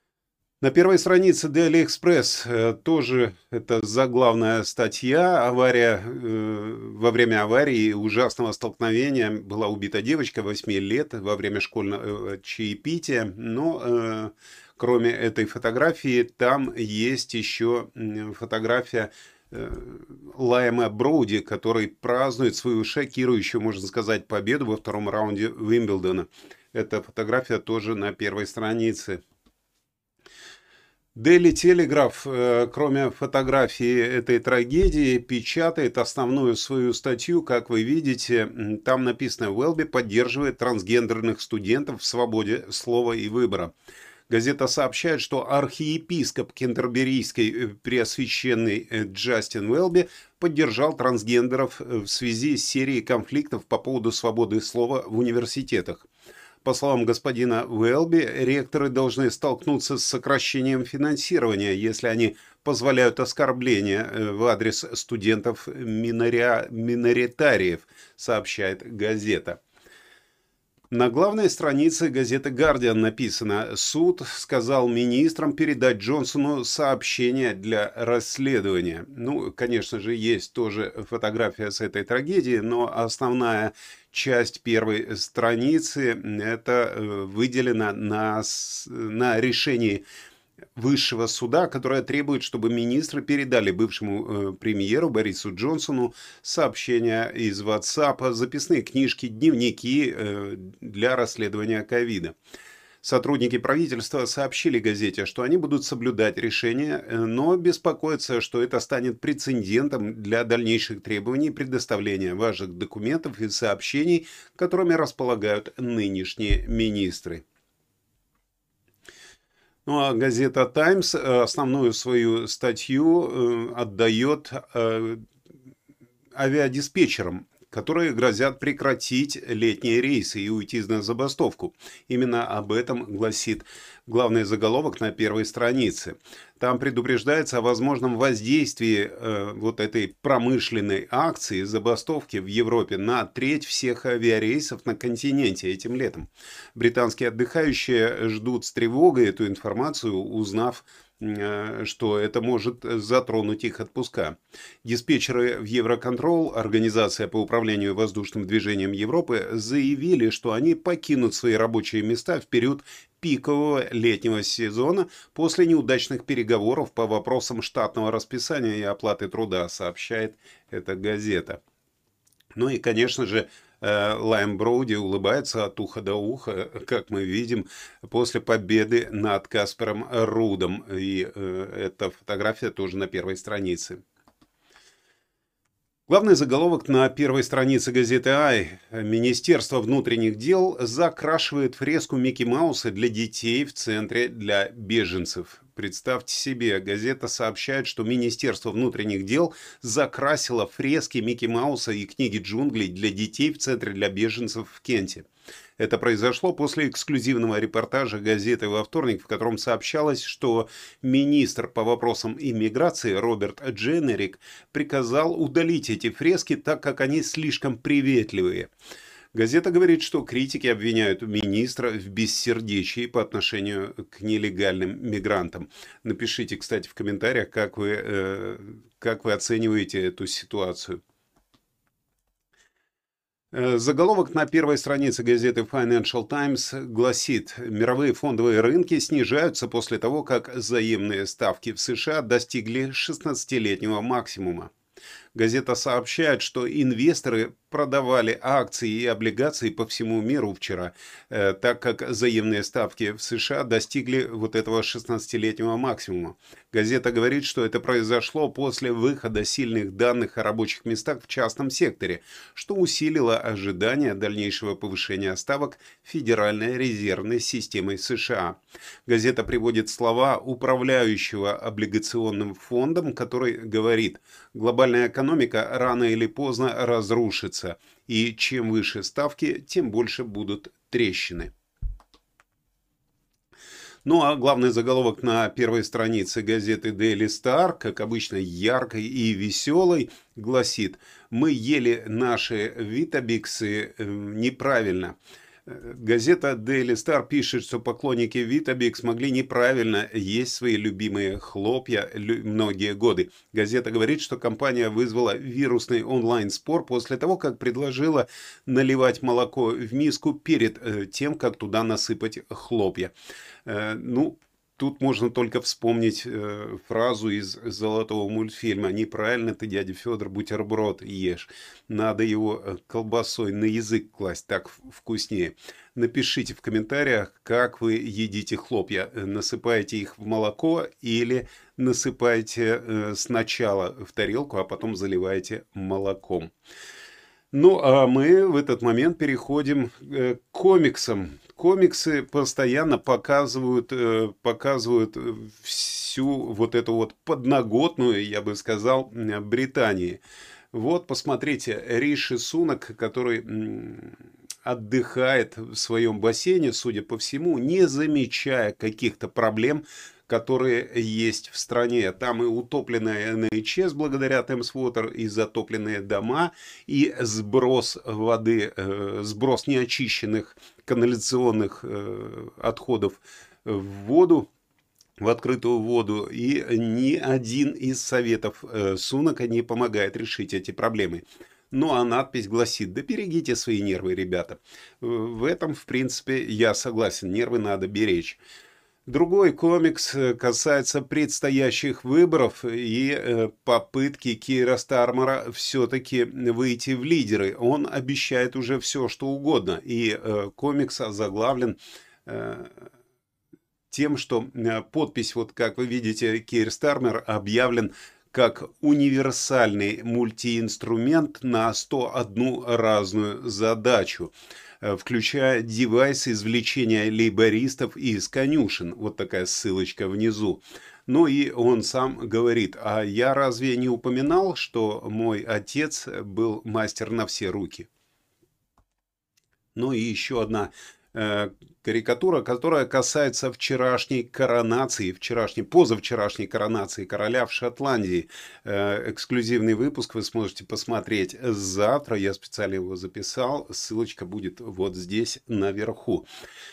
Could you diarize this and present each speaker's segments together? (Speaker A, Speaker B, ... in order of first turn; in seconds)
Speaker A: 0.6-29.2, 31.1-43.7, 44.3-56.1, 56.6-69.6, 70.9-90.0, 90.8-102.3, 103.0-117.4, 119.8-125.2, 126.3-171.6, 172.5-184.0, 186.1-205.2, 205.8-218.7, 219.3-231.0, 233.5-244.7, 245.3-281.5, 284.0-295.1, 295.7-313.1, 313.6-336.5, 337.5-350.2, 350.7-374.5, 375.2-388.4, 389.1-402.9, 403.9-427.9, 429.7-446.3